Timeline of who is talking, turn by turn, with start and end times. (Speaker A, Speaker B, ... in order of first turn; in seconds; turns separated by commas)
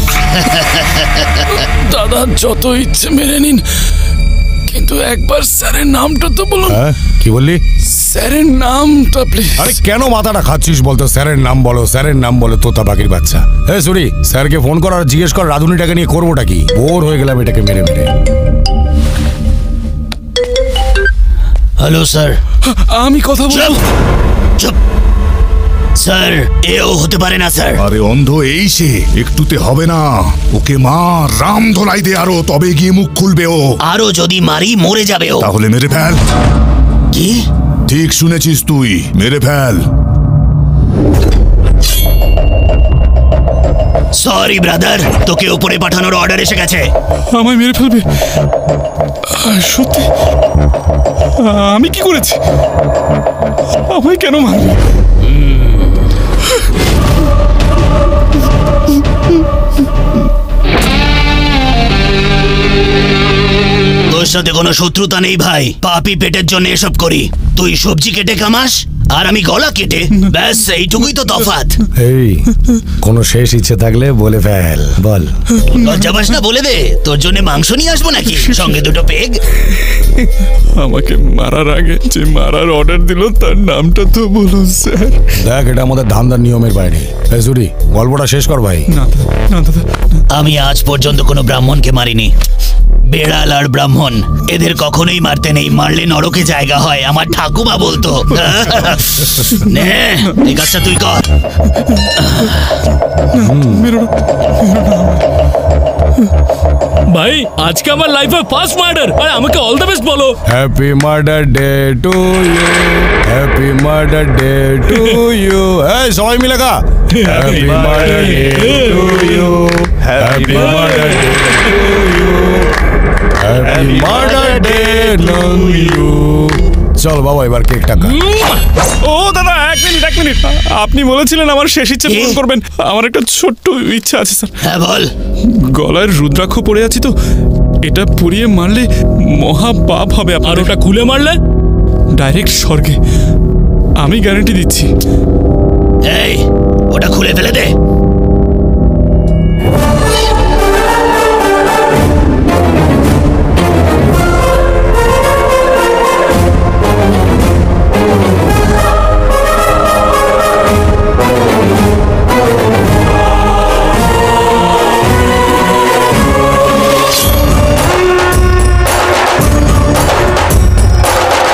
Speaker A: 0.3-1.3, Speaker B: 1.5-3.6, Speaker B: 4.7-6.8, Speaker C: 6.7-7.6, Speaker B: 7.9-9.8, Speaker C: 9.6-18.1, Speaker A: 21.8-22.4, Speaker B: 22.6-23.8, Speaker A: 23.5-23.8, Speaker A: 26.0-27.8, Speaker D: 27.8-33.7, Speaker A: 33.9-35.5, Speaker D: 35.4-36.2, Speaker A: 37.1-37.4, Speaker D: 37.9-39.9, Speaker A: 44.2-46.9, Speaker B: 47.3-48.1, Speaker B: 49.3-50.1, Speaker B: 51.4-52.4, Speaker B: 53.9-54.8, Speaker A: 64.1-71.8, Speaker C: 72.0-72.5, Speaker C: 73.0-75.3, Speaker A: 75.7-79.4, Speaker B: 80.8-85.2, Speaker C: 85.3-88.9, Speaker B: 88.9-89.9, Speaker A: 90.3-92.3, Speaker A: 93.0-101.3, Speaker B: 99.5-99.8, Speaker A: 102.2-102.6, Speaker B: 103.3-105.2, Speaker C: 103.3-103.9, Speaker E: 107.1-110.4, Speaker C: 110.5-122.7, Speaker E: 117.2-119.3, Speaker C: 123.4-128.2, Speaker B: 129.0-134.6, Speaker A: 132.1-132.4, Speaker A: 134.6-135.1, Speaker B: 135.4-137.1, Speaker B: 137.8-140.7, Speaker E: 140.4-141.4, Speaker B: 142.2-143.0, Speaker B: 144.0-144.9, Speaker A: 146.1-147.7